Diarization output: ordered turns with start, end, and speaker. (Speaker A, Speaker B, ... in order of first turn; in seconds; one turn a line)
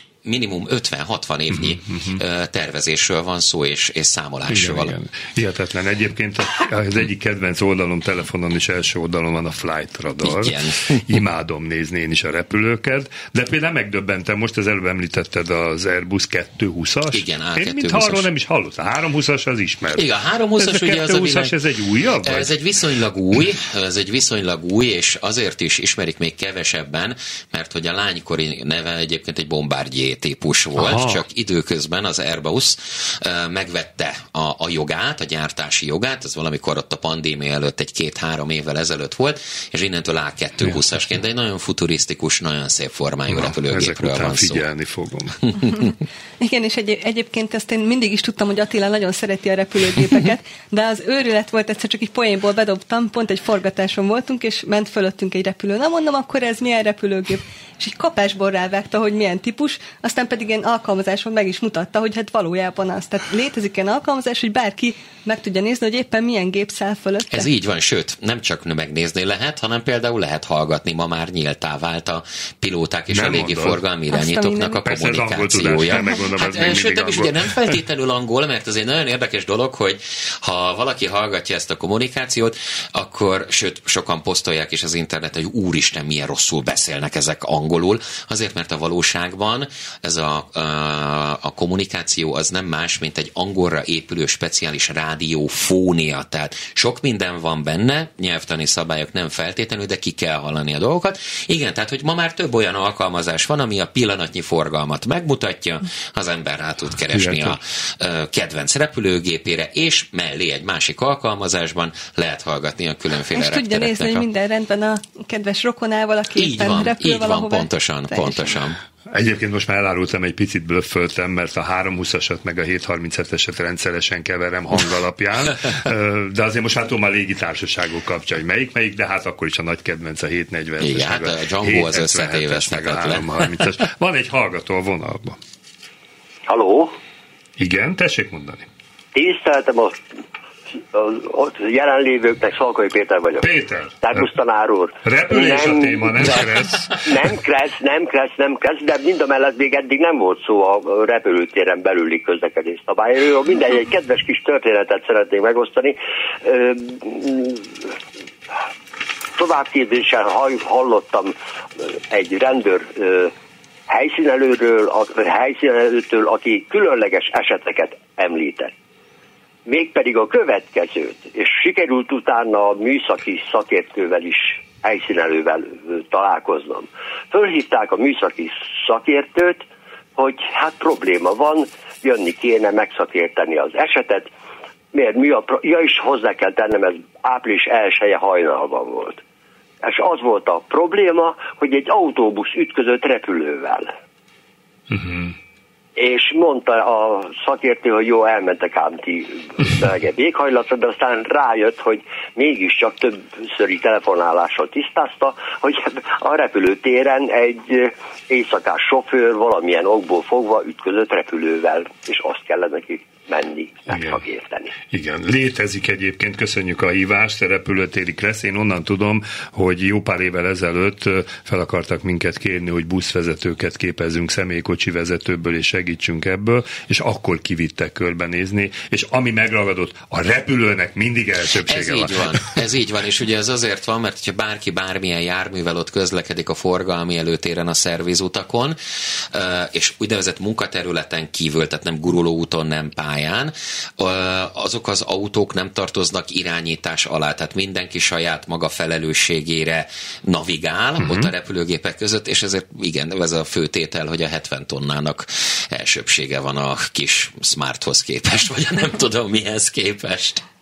Speaker A: 0.2-5.0
Speaker B: 1.5-2.2
Speaker B: 4.5-20.0
Speaker A: 10.2-11.2
Speaker A: 17.1-18.3
Speaker A: 19.9-21.6
Speaker B: 20.6-22.5
Speaker A: 22.2-44.6
Speaker B: 30.8-31.2
Speaker B: 43.3-45.5
Speaker C: 46.4-67.5
Speaker A: 67.3-114.3
Speaker B: 73.1-73.8
Speaker C: 74.1-74.8
Speaker B: 74.8-77.7
Speaker B: 107.1-107.6
Speaker C: 113.3-118.5
Speaker A: 116.3-118.8
Speaker B: 119.1-135.4
Speaker A: 130.8-133.5
Speaker D: 136.5-137.0
Speaker B: 137.6-138.7
Speaker D: 139.2-140.0
Speaker D: 140.9-143.5
Speaker B: 143.4-144.3
Speaker D: 144.0-157.9
Speaker B: 145.0-147.1
Speaker D: 159.4-163.3
Speaker D: 163.9-168.7
Speaker D: 169.7-179.7
Speaker D: 180.2-184.3
Speaker D: 184.9-189.2
Speaker D: 189.8-193.9
Speaker B: 194.9-195.3
Speaker D: 196.0-214.7
Speaker B: 213.9-214.2
Speaker B: 214.9-232.3
Speaker A: 231.7-238.8
Speaker A: 239.3-260.4
Speaker B: 251.0-251.3